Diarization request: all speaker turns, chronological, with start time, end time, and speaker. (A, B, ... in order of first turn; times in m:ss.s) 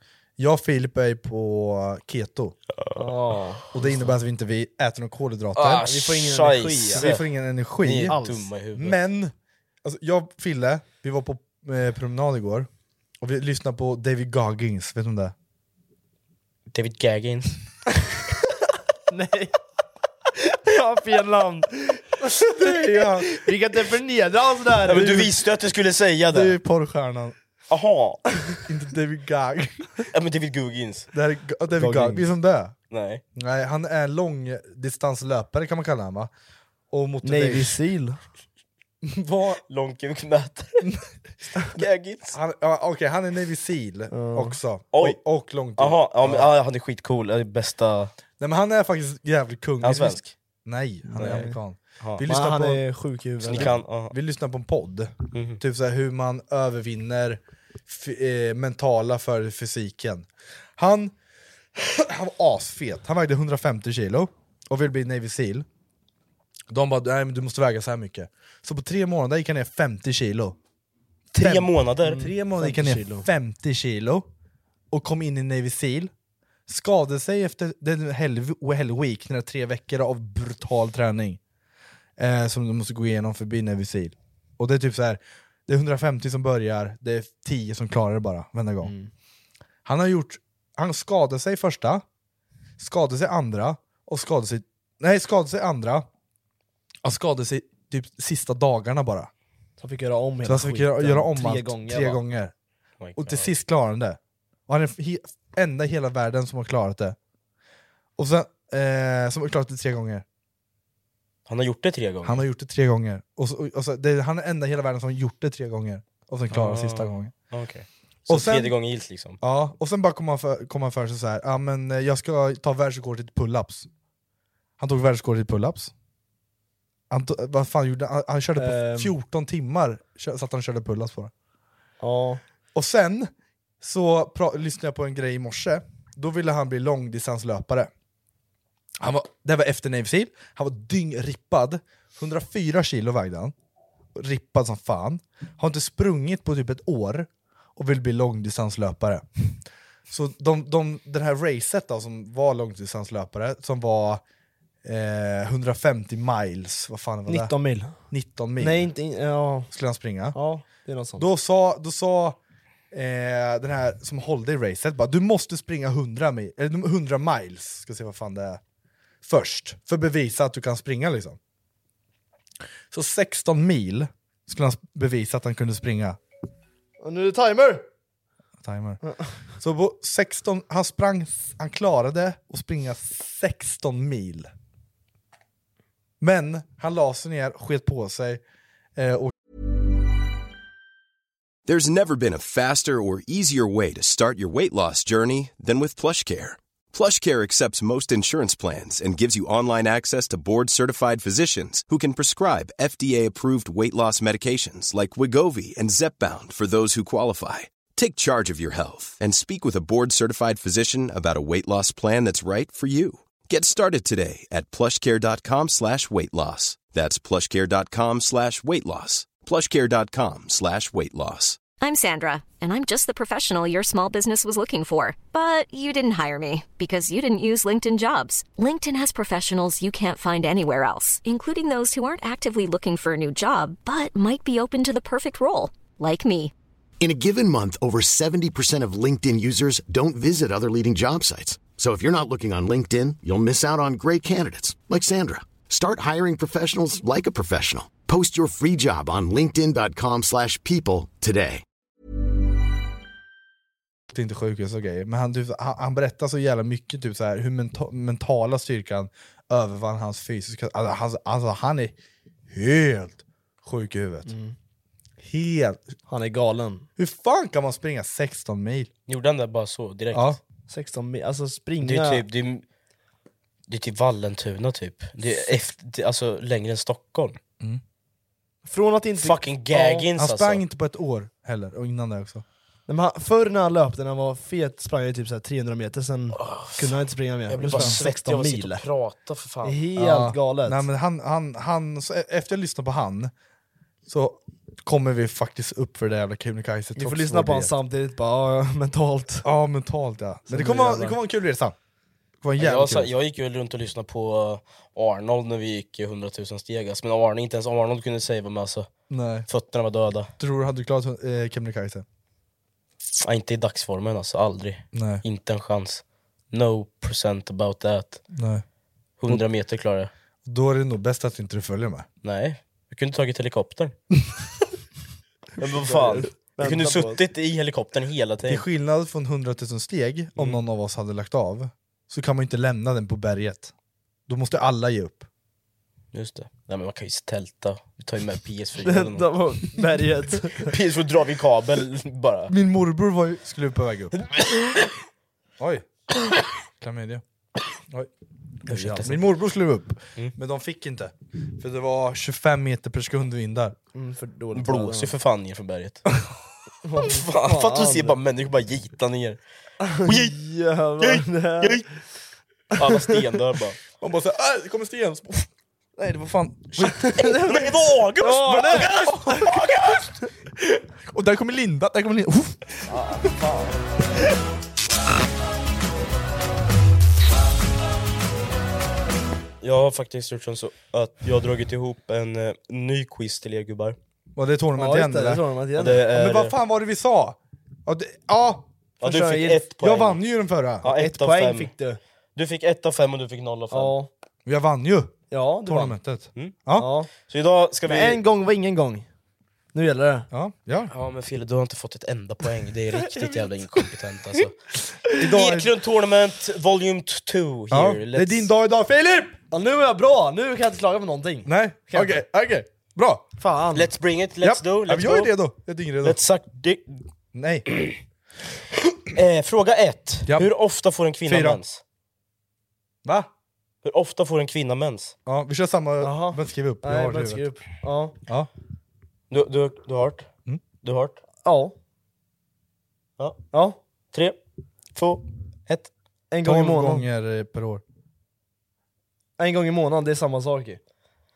0:00.4-0:02.5 A
0:03.0-0:04.1 B
0:03.7-0:05.9 A
0:05.6-0:07.2 C
0:05.8-0:07.1 B
0:06.9-0:08.2 A
0:07.8-0:09.0 C
0:08.1-0:08.4 B
0:08.8-0:09.3 A
0:09.8-0:12.7 A
0:13.2-0:15.3 A
0:16.7-0:17.6 C
0:19.1-0:19.5 B
0:20.4-0:22.1 B
0:22.4-0:23.4 A
0:23.3-0:25.2 B
0:24.8-0:26.6 C
0:24.9-0:25.3 A
0:26.3-0:27.4 A
0:27.7-0:28.2 C
0:28.7-0:30.0 A
0:30.1-0:31.1 C
0:31.1-0:32.7 A
0:31.8-0:32.2 B
0:32.9-0:33.2 C
0:33.3-0:36.3 A
0:36.9-0:37.8 A
0:37.2-0:38.2 B
0:39.0-0:39.6 A
0:39.7-0:40.9 C
0:41.7-0:42.4 C
0:42.3-0:46.5 A
0:44.1-0:44.6 B
0:45.8-0:48.1 C
0:48.4-0:52.8 A
0:49.8-0:50.3 C
0:51.1-0:51.6 B
0:51.2-0:51.5 C
0:52.2-0:53.8 B
0:53.4-0:54.1 C
0:53.5-1:01.1 A
0:55.3-0:55.6 C
1:01.8-1:05.6 A
1:06.7-1:10.6 A
1:11.3-1:12.2 C
1:11.4-1:14.3 A
1:12.0-1:13.3 B
1:14.9-1:16.1 A
1:16.7-1:21.4 A
1:22.2-1:28.9 A
1:28.8-1:29.1 B
1:29.8-1:32.0 A
1:32.8-1:36.1 A
1:37.0-1:39.3 A
1:39.8-1:42.2 B
1:40.4-1:42.5 A
1:43.0-1:43.5 C
1:43.2-1:47.2 A
1:48.2-1:50.2 A
1:51.5-1:52.4 C
1:52.2-1:57.3 A
1:56.5-1:59.4 C
1:58.3-1:58.7 A
1:59.4-2:03.9 A
2:04.8-2:05.9 A
2:07.1-2:11.3 A
2:08.6-2:09.1 B
2:12.0-2:12.4 B
2:12.7-2:17.9 A
2:19.0-2:23.5 A
2:24.1-2:29.2 A
2:30.1-2:34.2 A
2:34.8-2:38.9 A
2:37.3-2:38.0 B
2:38.6-2:39.7 B
2:39.7-2:40.4 A
2:40.3-2:41.2 B
2:41.2-2:42.4 A
2:42.9-2:48.6 A
2:49.2-2:51.4 A
2:52.9-2:56.2 A
2:57.0-2:57.8 B
2:58.6-2:59.0 A
2:59.0-2:59.3 B
2:59.6-3:04.5 A
3:06.2-3:08.4 A
3:09.0-3:09.3 A
3:11.6-3:41.7 D
3:41.7-3:56.5 E
3:57.0-4:11.6 F
4:14.1-4:22.0 A
4:22.5-4:24.3 A
4:24.3-4:24.5 B
4:25.2-4:25.9 A
4:26.1-4:26.9 B
4:27.0-4:28.9 A
4:29.1-4:30.4 C
4:30.1-4:30.4 A
4:30.7-4:32.2 B
4:31.8-4:32.6 C
4:33.7-4:37.4 C
4:38.6-4:40.1 B
4:39.2-4:40.6 C
4:40.2-4:42.4 A
4:42.9-4:48.8 B
4:46.4-4:49.8 C
4:47.6-4:48.0 A
4:49.6-4:50.8 B
4:50.0-4:53.3 A
4:54.1-4:57.7 A
4:57.0-4:59.4 B
4:59.4-5:01.7 A
5:00.5-5:01.2 B
5:02.4-5:03.1 A
5:02.6-5:08.9 C
5:09.1-5:09.5 A
5:09.5-5:10.3 C
5:10.4-5:12.0 A
5:13.2-5:18.2 C
5:14.9-5:15.2 A
5:18.3-5:18.6 A
5:19.2-5:20.1 C
5:20.4-5:22.1 A
5:22.2-5:24.0 C
5:25.6-5:28.6 C
5:25.6-5:27.2 B
5:28.5-5:33.7 A
5:34.3-5:35.3 A
5:36.1-5:39.3 C
5:38.8-5:40.7 B
5:40.6-5:42.5 C
5:42.5-5:44.1 A
5:44.2-5:44.9 C
5:45.6-5:45.8 A
5:46.8-5:47.2 A
5:48.6-5:53.8 A
5:48.7-5:49.2 C
5:53.9-5:55.1 B
5:54.5-5:56.0 C
5:56.8-5:58.2 B
5:57.0-5:59.4 C
5:59.8-6:01.8 B
6:00.0-6:00.4 C
6:01.0-6:01.8 C
6:02.8-6:03.8 C
6:02.8-6:03.2 B
6:04.0-6:07.1 A
6:06.8-6:10.1 C
6:07.0-6:09.0 B
6:11.1-6:12.7 A
6:12.9-6:13.8 C
6:19.6-6:24.0 C
6:24.4-6:25.4 A
6:24.8-6:26.0 B
6:25.8-6:26.5 C
6:26.1-6:28.7 A
6:29.0-6:29.7 B
6:29.0-6:30.2 C
6:29.8-6:30.9 A
6:30.8-6:31.7 C
6:30.8-6:32.0 B
6:32.4-6:34.0 C
6:33.7-6:34.1 B
6:34.4-6:36.9 A
6:35.3-6:35.9 B
6:36.8-6:37.1 B
6:37.1-6:38.2 C
6:37.8-6:39.1 B
6:39.7-6:40.3 B
6:40.3-6:40.9 A
6:40.9-6:44.5 C
6:43.1-6:43.4 B
6:45.2-6:48.5 C
6:45.2-6:45.7 A
6:47.7-6:49.4 A
6:49.5-6:52.2 B
6:51.4-6:53.3 A
6:53.4-6:53.9 B
6:53.7-6:55.3 C
6:54.4-6:56.2 A
6:56.0-6:57.0 C
6:57.3-6:57.7 A
6:59.1-7:01.8 C
7:01.2-7:01.6 A
7:03.0-7:03.3 A
7:03.8-7:05.1 C
7:05.2-7:07.5 A
7:06.0-7:08.1 B
7:09.3-7:10.3 C
7:10.8-7:11.2 C
7:11.4-7:11.7 B
7:13.5-7:13.8 B
7:14.1-7:14.4 C
7:14.9-7:15.9 C
7:16.3-7:17.0 B
7:16.4-7:17.8 A
7:19.4-7:20.8 B